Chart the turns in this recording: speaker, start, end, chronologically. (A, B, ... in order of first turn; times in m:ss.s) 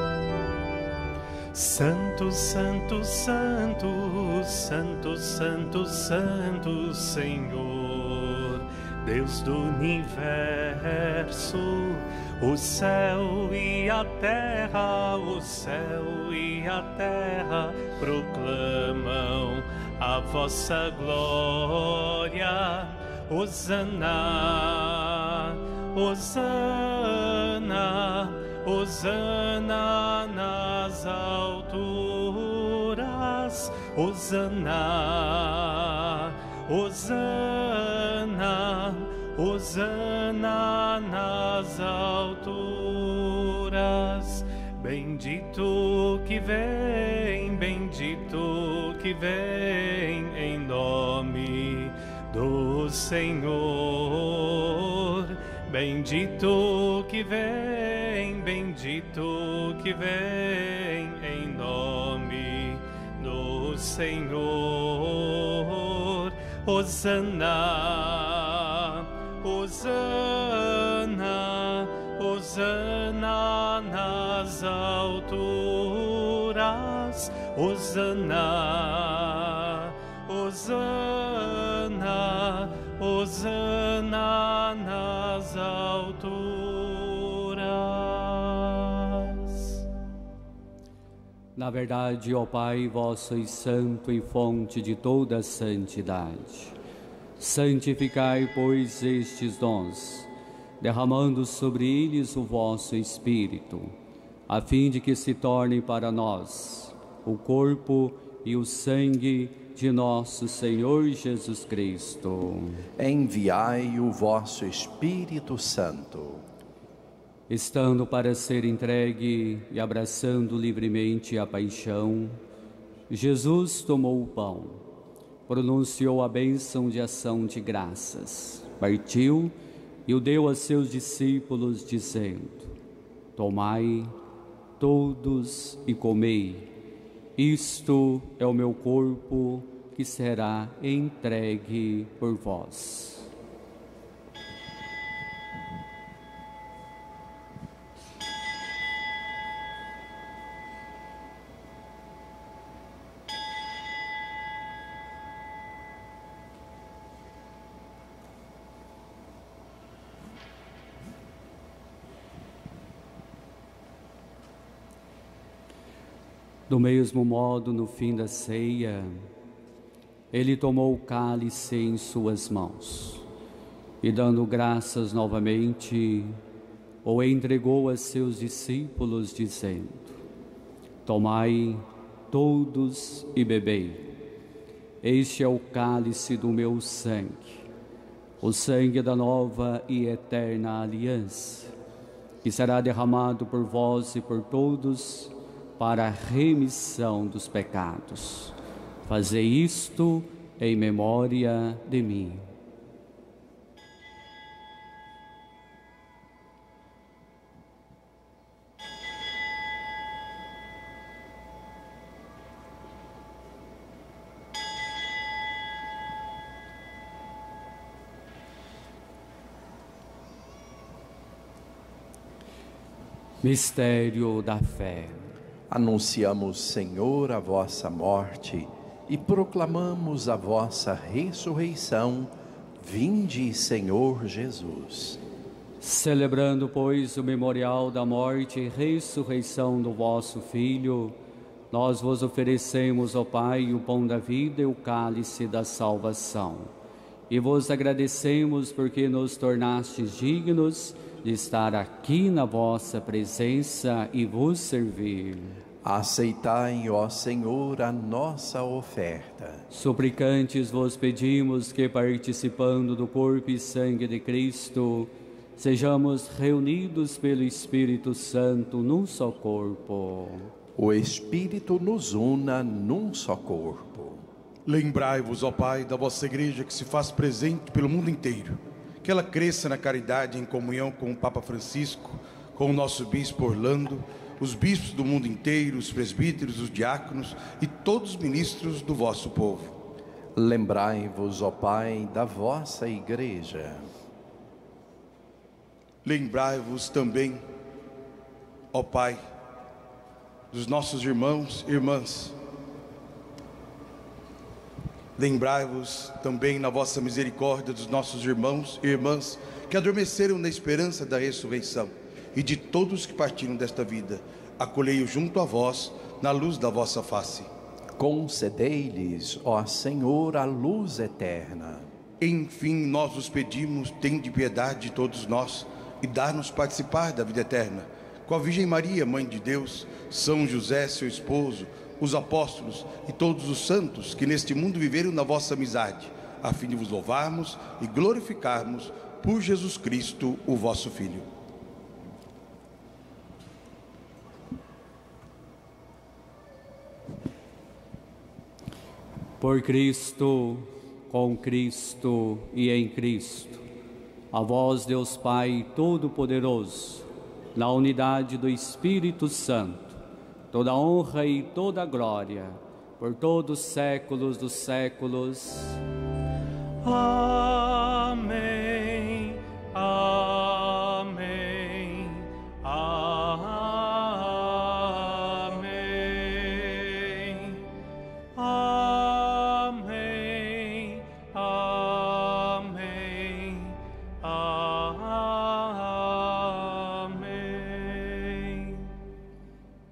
0:01.5-1:29.8 A
1:31.6-1:36.7 B
1:37.4-1:40.3 B
1:40.8-1:44.0 B
1:44.5-1:52.8 B
1:53.0-1:56.4 C
1:57.5-2:02.4 B
2:03.1-2:04.8 B
2:05.5-2:09.6 B
2:10.1-2:12.7 B
2:13.4-2:14.1 B
2:14.8-2:16.7 B
2:17.4-2:23.3 B
2:46.7-2:49.3 B
2:50.3-2:53.2 B
2:54.0-2:56.4 B
2:57.0-3:00.1 B
3:01.0-3:04.1 B
3:05.0-3:07.6 B
3:08.4-3:11.7 B
3:12.4-3:18.5 B
3:19.0-3:22.5 B
3:43.4-3:45.3 B
3:45.7-3:55.2 C
3:55.8-4:01.2 B
4:01.7-4:06.7 B
4:07.3-4:15.6 B
4:15.8-4:19.7 C
4:19.7-4:30.5 B
4:30.8-4:34.2 C
4:34.7-4:49.8 D
4:50.4-4:53.9 C
4:56.0-4:57.4 D
4:58.7-4:59.2 D
5:00.5-5:02.4 D
5:05.2-5:17.5 D
5:18.0-5:21.9 C
5:22.2-5:41.3 D
5:49.4-5:53.6 B
5:54.3-6:00.0 B
6:00.5-6:05.8 B
6:06.8-6:17.6 A
6:18.4-6:28.9 A